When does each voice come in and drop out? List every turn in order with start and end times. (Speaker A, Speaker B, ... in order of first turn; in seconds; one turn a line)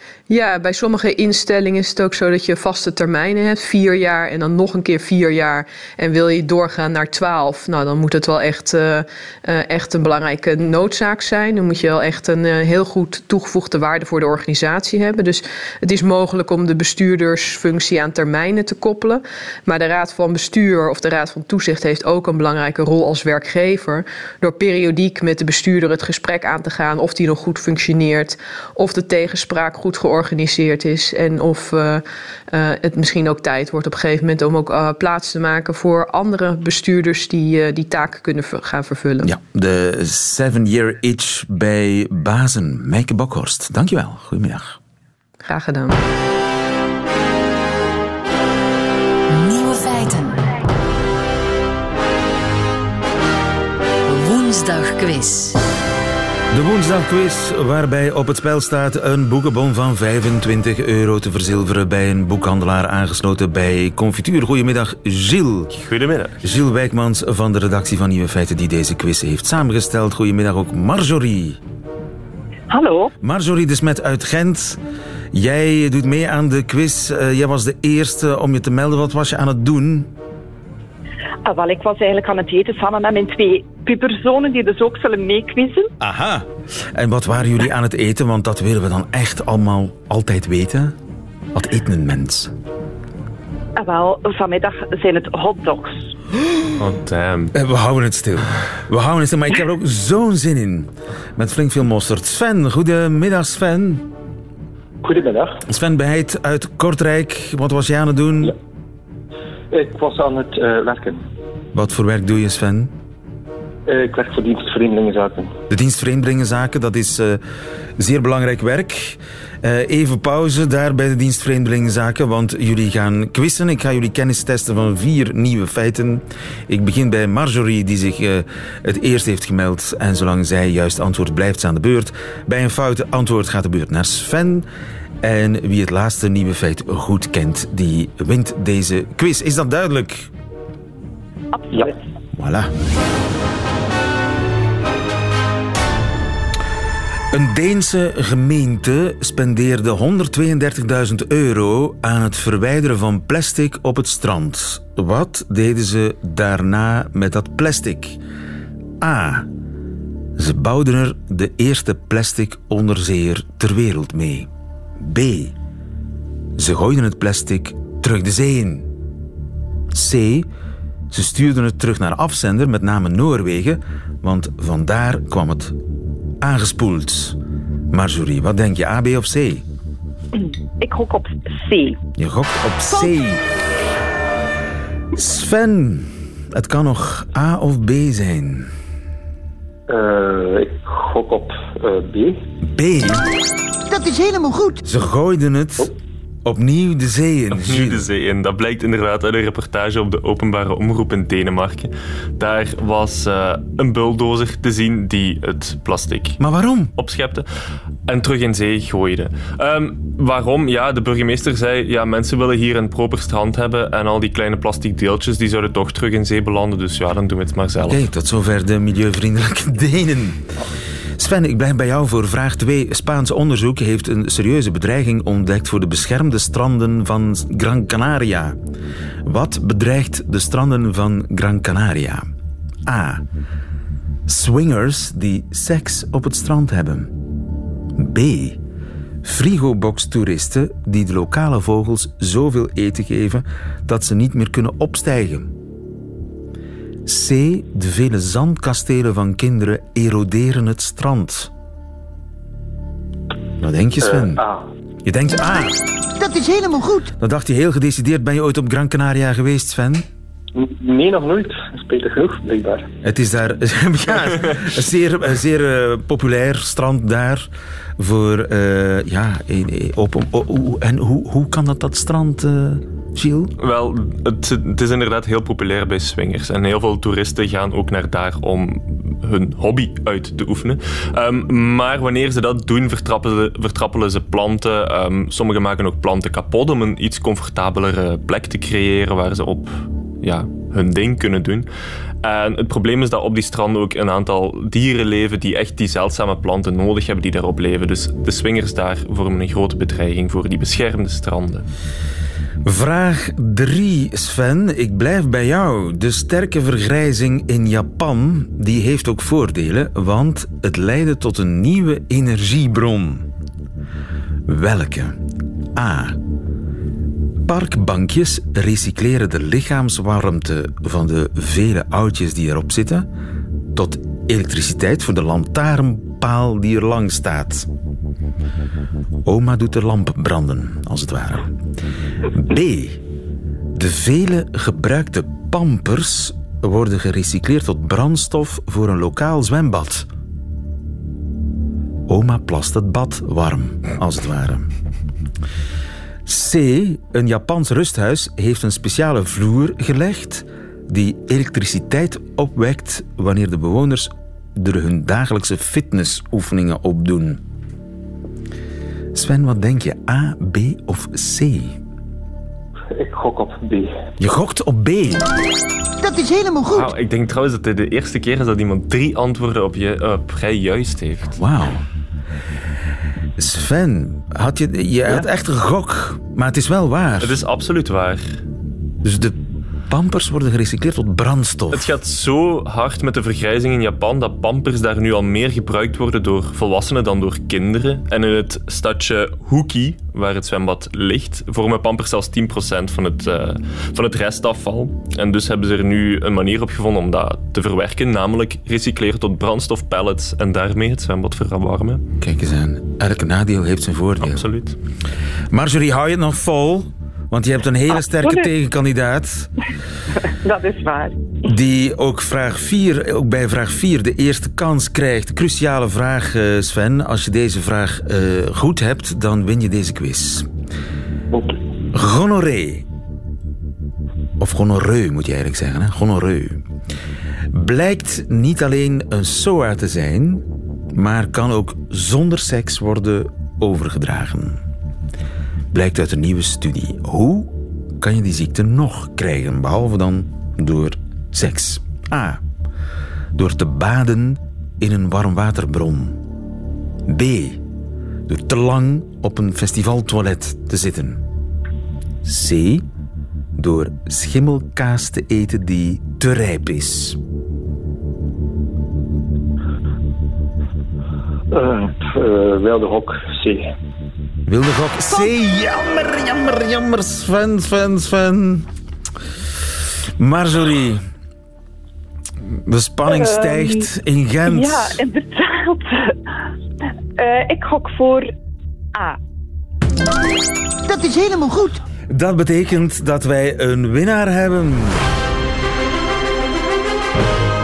Speaker A: 0.3-39.3
Speaker B: 39.2-44.8
Speaker A: 45.4-46.0
Speaker C: 49.3-50.5
Speaker C: 54.1-55.6
Speaker B: 56.5-65.7
Speaker D: 65.7-66.4
Speaker B: 66.4-71.6
Speaker E: 72.7-73.1
Speaker B: 73.2-74.8
Speaker B: 75.3-80.1
Speaker E: 81.4-85.9
Speaker B: 86.0-90.9
Speaker B: 91.5-92.5
Speaker E: 93.8-96.1
Speaker D: 96.8-97.5
Speaker B: 97.5-104.0
Speaker F: 105.0-105.6
Speaker B: 105.7-108.5
Speaker F: 109.7-111.2
Speaker B: 111.7-112.9
Speaker F: 113.9-115.5
Speaker B: 115.7-117.4
Speaker B: 118.0-134.7
Speaker B: 135.2-140.3
Speaker E: 141.5-142.0
Speaker B: 142.3-142.7
Speaker B: 147.3-158.2
Speaker B: 159.0-159.5
Speaker B: 160.4-165.5
Speaker B: 166.6-168.9
Speaker B: 169.9-170.5
Speaker B: 171.1-175.8
Speaker B: 176.4-177.4
Speaker B: 177.9-179.6
Speaker E: 180.8-182.0
Speaker B: 182.2-183.4
Speaker E: 182.9-183.1
Speaker B: 185.1-188.7
Speaker F: 189.9-192.4
Speaker B: 192.6-193.2
Speaker G: 193.9-194.8
Speaker B: 194.8-195.9
Speaker B: 196.4-198.1
Speaker D: 197.5-206.4
Speaker B: 206.4-206.9
Speaker D: 207.0-207.5
Speaker D: 208.1-218.0
Speaker B: 217.9-220.4
Speaker B: 221.2-228.6
Speaker B: 229.2-232.3
Speaker B: 232.8-233.2
Speaker B: 234.2-237.1
Speaker B: 237.9-238.6
Speaker B: 239.2-245.5
Speaker B: 247.0-251.5
Speaker B: 253.6-254.4
Speaker F: 254.0-254.7
Speaker B: 255.0-255.8
Speaker G: 256.1-257.1
Speaker B: 257.2-260.1
Speaker F: 260.5-262.9
Speaker B: 263.0-273.5
Speaker D: 273.6-291.7
Speaker D: 292.2-301.7
Speaker B: 302.6-313.3
Speaker B: 314.4-315.2
Speaker B: 315.7-316.2
Speaker B: 317.4-323.1
Speaker B: 323.7-327.7
Speaker B: 329.2-331.5
Speaker B: 332.3-333.0
Speaker B: 333.7-340.1
Speaker B: 342.1-344.7
Speaker B: 346.2-357.4
Speaker B: 359.1-361.8
Speaker F: 362.9-363.9
Speaker B: 364.2-365.2
Speaker G: 366.0-366.9
Speaker D: 366.7-371.4
Speaker B: 371.4-371.8
Speaker B: 373.4-377.4
Speaker D: 377.2-378.4
Speaker B: 379.0-379.4
Speaker B: 379.9-381.9
Speaker D: 381.7-402.1
Speaker B: 402.2-404.5
Speaker D: 404.2-404.8
Speaker B: 405.5-409.5
Speaker E: 410.4-411.1
Speaker B: 411.4-420.5
Speaker F: 421.3-421.6
Speaker B: 421.9-422.8
Speaker B: 424.4-426.6
Speaker B: 427.5-434.6
Speaker B: 435.7-442.4
Speaker B: 443.3-446.2
Speaker B: 447.1-447.6
Speaker B: 448.3-451.2
Speaker B: 452.2-452.8
Speaker B: 453.6-457.2
Speaker F: 461.5-463.7
Speaker B: 464.4-468.7
Speaker B: 470.2-471.0
Speaker B: 472.5-475.0
Speaker E: 473.1-473.9
Speaker E: 474.4-476.2
Speaker E: 477.2-478.3
Speaker G: 480.8-481.8
Speaker B: 482.1-485.0